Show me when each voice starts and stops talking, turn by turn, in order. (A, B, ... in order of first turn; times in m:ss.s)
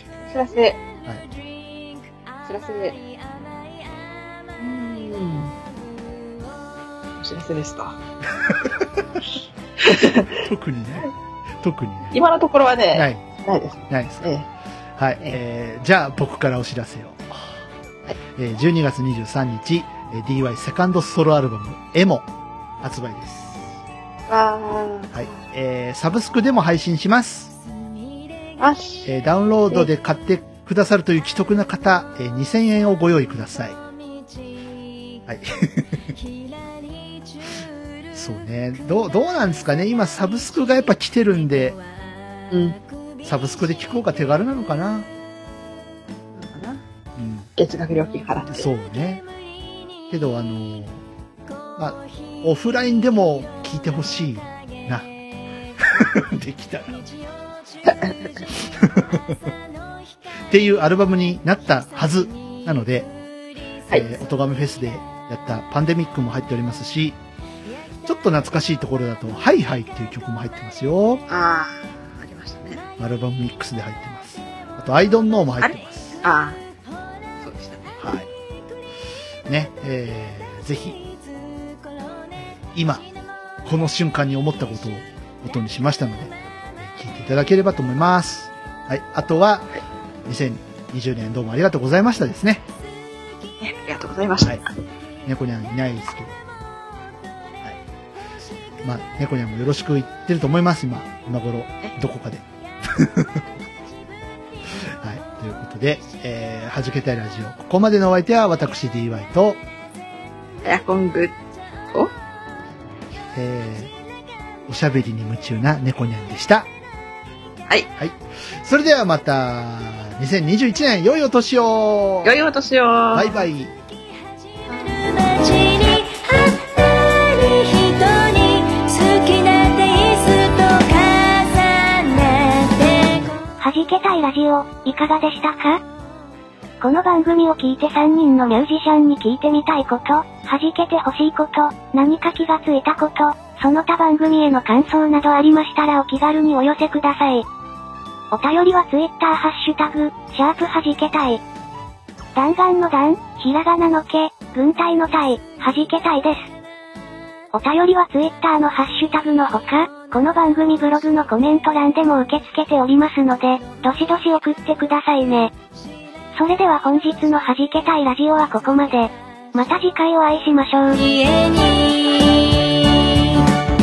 0:00.2-0:00.8 A
0:02.4-0:03.0 A
0:04.6-0:05.6 A
0:07.2-0:08.0 A
0:08.4-0:08.8 B
0:09.8-0:10.4 A
0:10.3-0:12.2 B
0:12.1-0:14.5 A
0:12.9-0:13.2 B
0:13.9-0:14.3 B
0:15.0-0:17.5 B
0:18.3-0:22.3 B
0:22.8-0:23.7 B
0:24.3-0:25.4 A
0:25.1-0:27.5 B
0:28.6-0:29.1 A
0:29.0-0:33.8 B
0:35.2-0:36.1 B
0:38.1-0:41.8 B
0:42.5-0:42.8 A
0:43.2-0:45.1 B
0:46.3-0:46.8 A
0:47.2-0:47.5 B
0:47.6-0:48.7 A
0:48.5-0:49.2 B
0:50.1-0:51.0 B
0:51.8-0:55.1 B
0:55.8-0:57.1 B
0:57.8-0:58.4 A
0:58.6-0:59.5 B
1:00.3-1:03.1 B
1:03.9-1:07.2 B
1:08.0-1:11.2 B
1:11.3-1:12.8 A
1:13.0-1:16.2 B
1:15.6-1:16.6 A
1:17.4-1:17.8 A
1:18.0-1:18.3 B
1:19.5-1:21.0 B
1:22.4-1:23.0 B
1:23.6-1:29.7 B
1:30.2-1:32.6 B
1:33.6-1:34.7 A
1:35.2-1:36.4 B
1:38.8-1:43.4 B
1:44.8-1:49.6 B
1:50.6-1:51.4 A
1:53.3-1:53.9 B
1:54.7-1:56.7 B
1:58.0-2:02.3 B
2:02.2-2:03.4 A
2:03.1-2:03.7 B
2:04.7-2:13.4 C
2:13.6-2:15.8 D
2:16.8-2:27.4 D
2:28.3-2:31.4 D
2:32.3-2:36.5 D
2:37.5-2:45.5 D
2:46.4-2:51.0 D
2:50.9-2:53.5 C